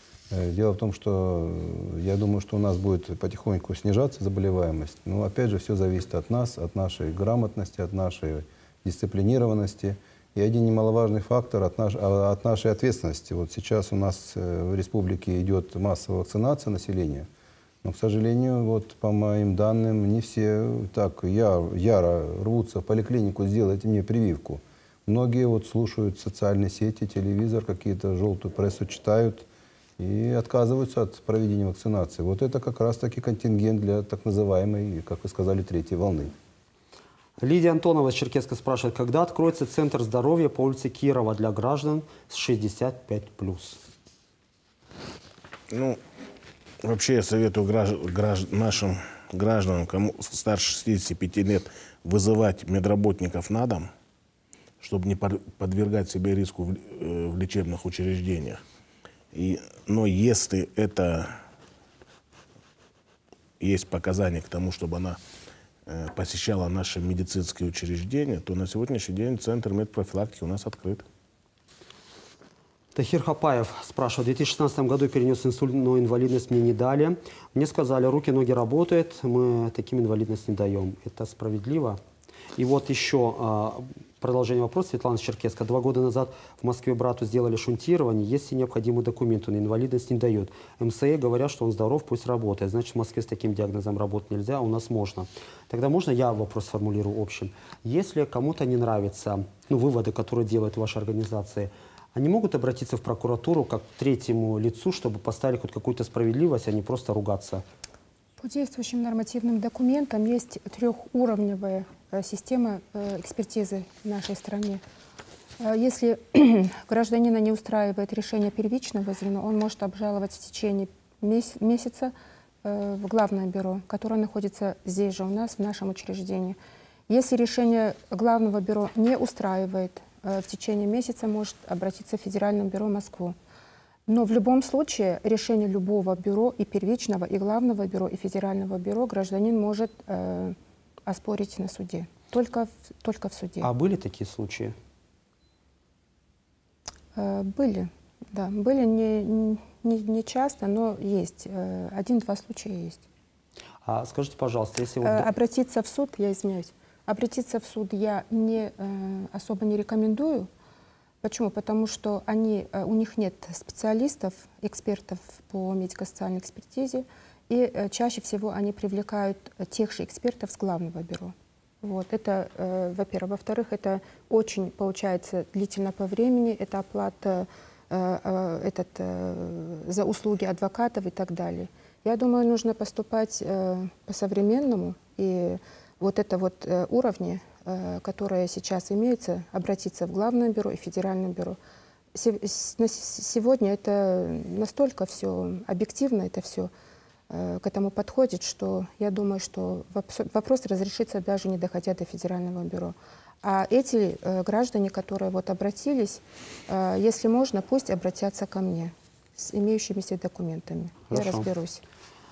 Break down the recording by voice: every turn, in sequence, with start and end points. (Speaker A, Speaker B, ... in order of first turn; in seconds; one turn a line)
Speaker A: 0.3-17.3
Speaker A: 17.8-29.5
Speaker A: 30.0-36.3
Speaker B: 37.4-43.8
Speaker C: 45.7-46.0
Speaker C: 46.8-53.9
Speaker C: 54.8-58.6
Speaker C: 59.3-61.4
Speaker C: 63.6-65.2
Speaker C: 65.9-71.0
Speaker B: 73.0-82.0
Speaker B: 82.6-107.6
Speaker D: 108.4-114.8
Speaker D: 115.6-126.6
Speaker D: 127.1-133.4
Speaker D: 134.1-143.7
Speaker B: 143.6-144.8
Speaker D: 147.2-153.0
Speaker B: 153.8-155.3
Speaker D: 155.0-160.5
Speaker D: 161.2-191.6
Speaker D: 192.1-196.7
Speaker D: 197.3-211.8
Speaker B: 211.1-211.5